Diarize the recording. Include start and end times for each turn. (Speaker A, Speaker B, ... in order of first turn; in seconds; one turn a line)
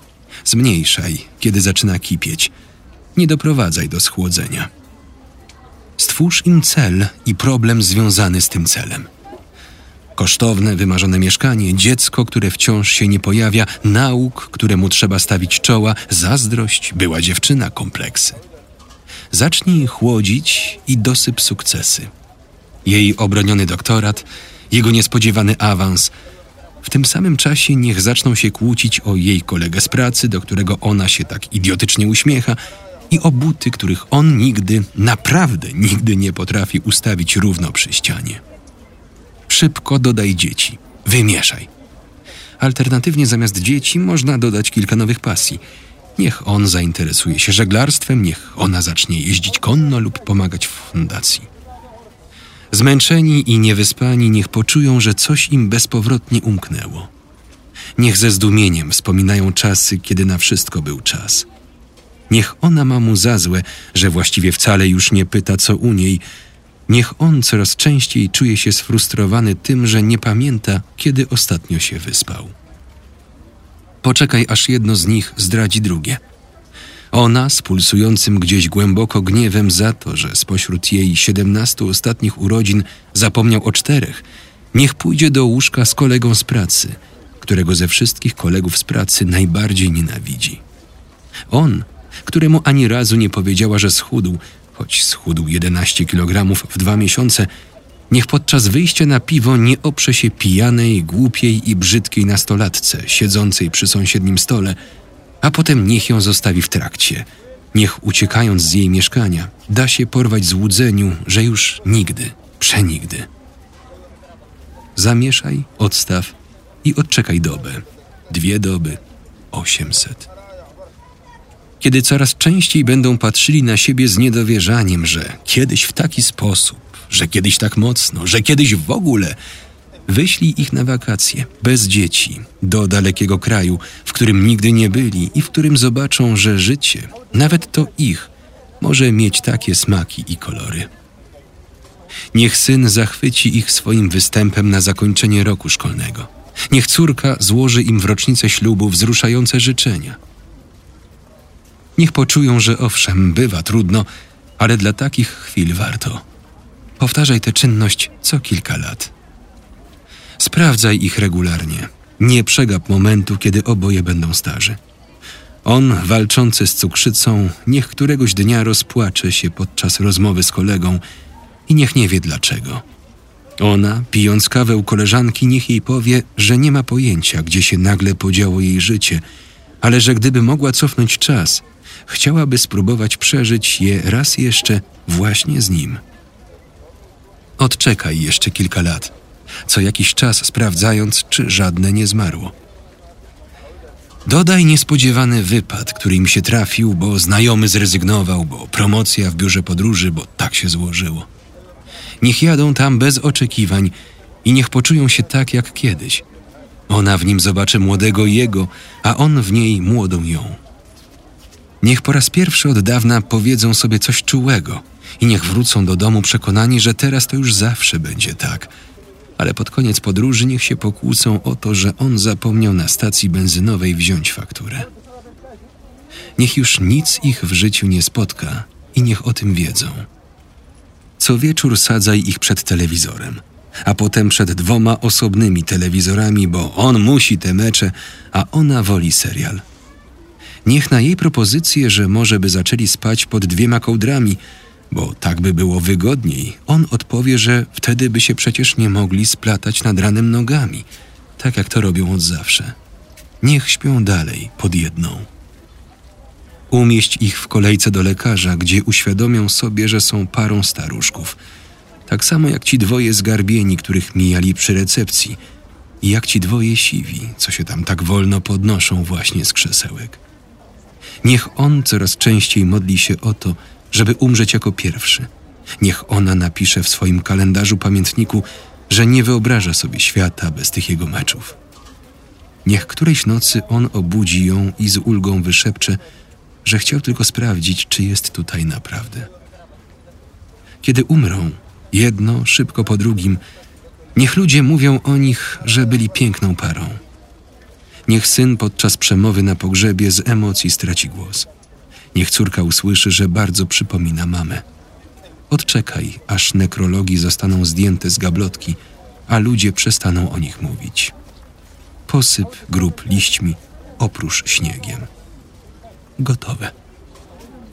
Speaker A: 0.5-2.5
Speaker A: 3.1-4.7
Speaker A: 6.0-9.1
Speaker A: 10.2-18.4
Speaker A: 19.3-22.1
Speaker A: 22.9-26.1
Speaker A: 26.8-32.6
Speaker A: 33.1-38.4
Speaker A: 39.5-41.7
Speaker A: 42.6-45.6
Speaker A: 46.2-51.5
Speaker A: 52.7-57.1
Speaker A: 58.0-61.5
Speaker A: 62.3-66.2
Speaker A: 66.9-72.5
Speaker A: 74.0-76.2
Speaker A: 77.1-90.6
Speaker A: 91.5-97.5
Speaker A: 98.1-104.8
Speaker A: 105.4-113.3
Speaker A: 115.0-119.0
Speaker A: 119.5-120.3
Speaker A: 121.8-129.4
Speaker A: 130.1-140.9
Speaker A: 142.3-150.2
Speaker A: 152.0-154.1
Speaker A: 154.6-156.2
Speaker A: 157.0-159.1
Speaker A: 160.4-164.8
Speaker A: 165.6-171.0
Speaker A: 171.7-172.8
Speaker A: 173.6-179.2
Speaker A: 179.8-186.0
Speaker A: 187.6-189.1
Speaker A: 189.7-192.5
Speaker A: 194.2-201.3
Speaker A: 202.2-206.2
Speaker A: 206.9-210.6
Speaker A: 211.8-218.7
Speaker A: 219.4-224.9
Speaker A: 226.4-230.1
Speaker A: 231.2-239.6
Speaker A: 240.7-244.4
Speaker A: 244.9-250.9
Speaker A: 251.4-252.8
Speaker A: 253.4-255.3
Speaker A: 256.7-261.4
Speaker A: 262.1-265.4
Speaker A: 266.0-270.2
Speaker A: 271.2-275.3
Speaker A: 275.8-281.6
Speaker A: 282.6-286.0
Speaker A: 286.6-289.3
Speaker A: 290.8-293.4
Speaker A: 294.1-297.0
Speaker A: 298.1-301.5
Speaker A: 302.1-304.6
Speaker A: 305.5-311.1
Speaker A: 312.1-315.1
Speaker A: 316.2-316.7